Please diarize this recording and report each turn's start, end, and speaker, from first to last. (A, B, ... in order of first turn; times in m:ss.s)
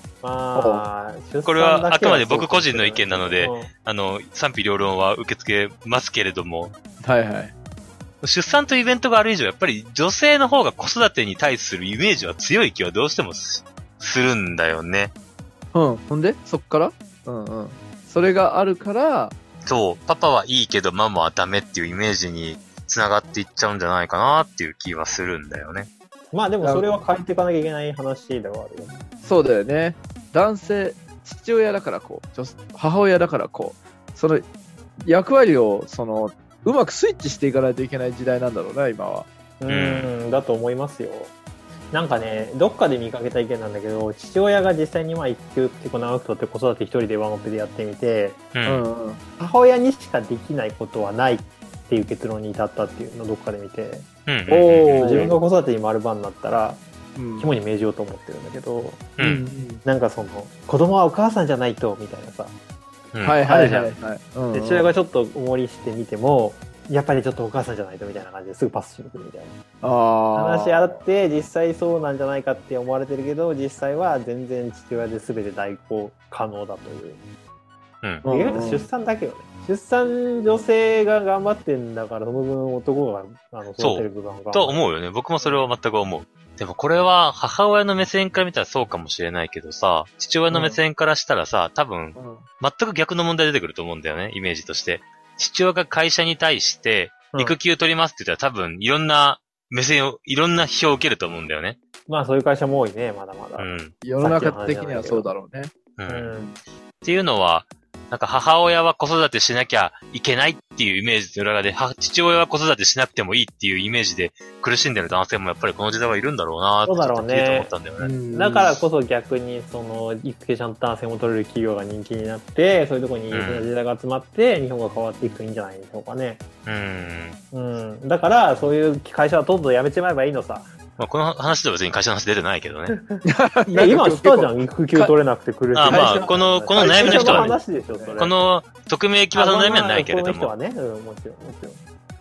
0:00.2-0:03.7 A
0:00.6-0:00.8 B
0:01.4-0:06.7 C
0:07.0-0:07.5 B
0:08.2-0:15.1 C
0:15.7-0:19.3 B
0:19.6-0:25.9 C
0:26.3-0:29.0 A
0:26.6-0:26.9 B
0:29.2-0:34.5 B
0:35.0-0:39.3 B
0:39.6-0:41.3 A
0:39.7-0:40.1 C
0:41.9-0:48.4 A
0:48.5-0:48.8 C
0:48.6-0:49.2 B
0:49.4-0:54.1 A
0:54.3-0:55.3 C
0:54.5-0:55.4 B
0:55.0-0:56.8 A
0:57.2-0:57.5 B
0:57.4-0:59.0 A
0:59.2-0:59.4 C
0:59.2-0:59.8 B
0:59.8-1:02.5 A
1:03.1-1:03.4 C
1:03.2-1:04.9 B
1:03.4-1:03.9 A
1:04.5-1:09.6 A
1:09.8-1:11.0 B
1:10.3-1:17.2 A
1:18.2-1:18.9 B
1:18.2-1:24.8 A
1:23.8-1:41.8 C
1:25.4-1:25.7 A
1:30.5-1:30.8 A
1:32.2-1:32.4 B
1:42.1-1:45.3 A
1:43.6-1:43.9 C
1:44.0-1:45.7 B
1:46.0-1:46.3 C
1:46.1-1:46.6 A
1:47.0-1:58.1 C
1:56.8-1:57.7 A
1:58.0-1:58.7 B
1:58.3-2:06.4 A
2:03.3-2:03.7 C
2:06.6-2:07.4 C
2:07.5-2:10.7 A
2:11.0-2:13.0 C
2:12.9-2:18.3 A
2:13.2-2:15.1 B
2:15.7-2:17.6 C
2:15.9-2:18.2 B
2:18.2-2:20.5 C
2:19.3-2:21.8 A